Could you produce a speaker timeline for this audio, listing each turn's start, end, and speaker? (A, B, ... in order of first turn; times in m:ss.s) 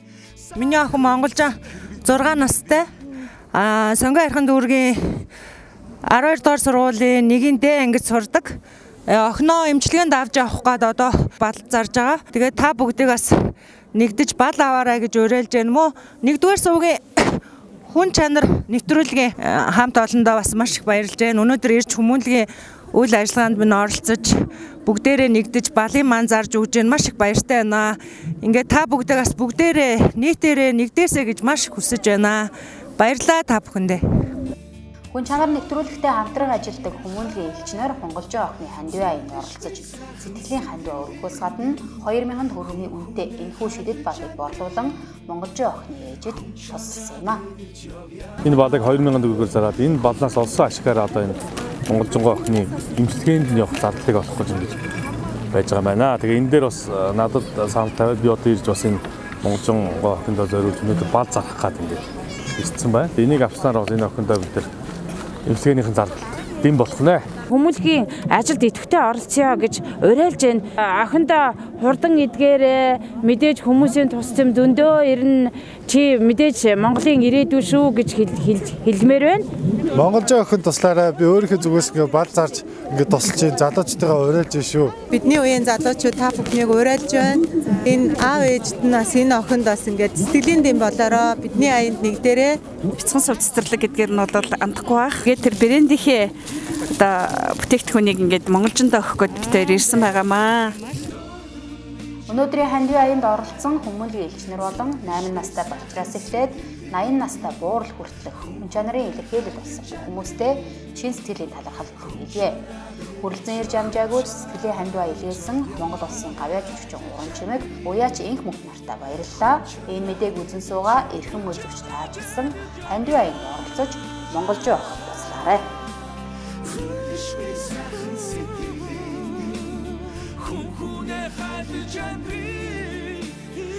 0:00.5-0:02.9 A
0:03.5-0:05.3 A
0:06.0-0:34.3 A
0:35.1-0:47.4 B
0:48.4-0:54.8 C
0:55.5-1:02.0 C
1:02.5-1:04.7 C
1:05.5-1:07.3 C
1:07.5-1:19.5 D
1:19.9-1:25.0 E
1:25.1-1:32.6 F
1:33.0-1:36.3 G
1:36.9-1:40.8 G
1:42.3-1:52.7 B
1:53.2-2:05.7 B